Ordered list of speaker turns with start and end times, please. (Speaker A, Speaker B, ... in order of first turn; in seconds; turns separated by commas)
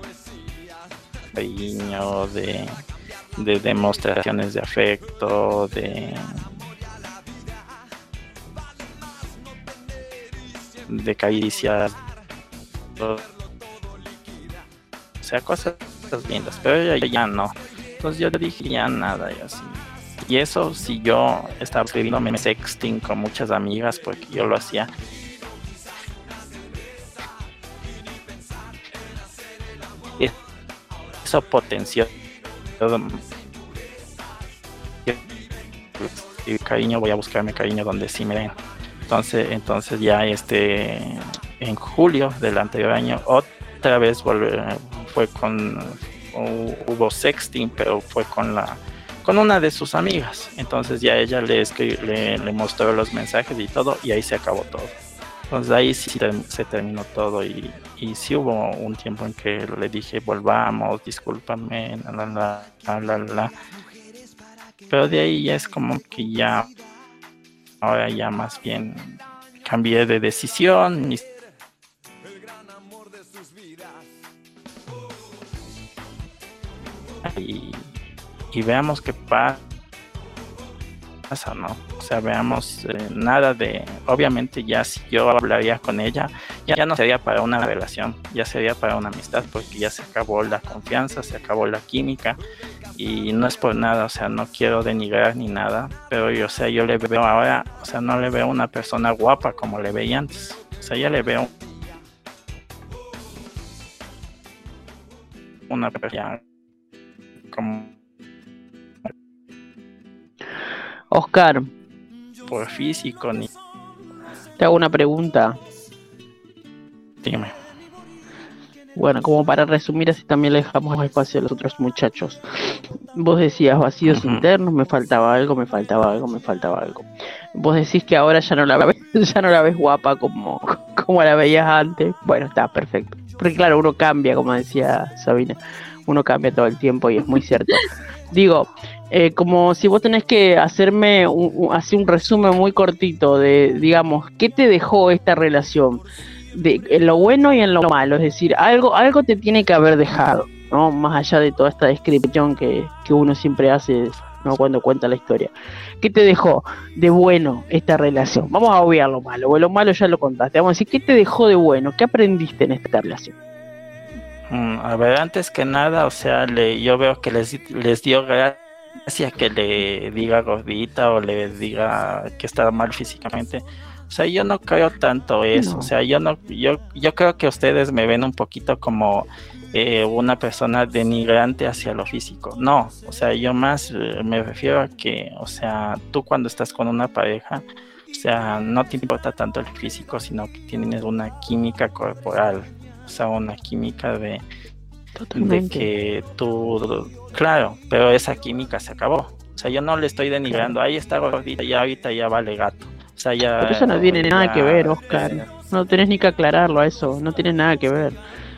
Speaker A: 1.3-2.7, Speaker A: 3.4-6.3, Speaker A: 10.9-12.0, Speaker A: 13.0-13.2, Speaker A: 15.2-24.9, Speaker A: 31.2-32.1, Speaker A: 32.8-33.2, Speaker A: 36.0-38.5, Speaker A: 39.1-54.9, Speaker A: 55.5-63.5, Speaker A: 64.9-66.7, Speaker A: 67.8-71.2, Speaker A: 77.2-77.9, Speaker A: 78.5-79.6, Speaker A: 81.3-92.4, Speaker A: 93.0-101.5, Speaker A: 105.7-106.4, Speaker A: 107.5-107.9, Speaker B: 111.1-111.7, Speaker A: 112.5-113.5, Speaker B: 114.6-115.6, Speaker A: 117.2-117.5, Speaker B: 119.0-122.4, Speaker B: 123.1-146.0, Speaker A: 124.1-124.5, Speaker B: 146.5-163.3, Speaker A: 164.5-194.4, Speaker B: 175.5-175.9, Speaker B: 195.2-195.9, Speaker A: 195.3-205.5, Speaker B: 200.5-200.8, Speaker B: 203.6-208.2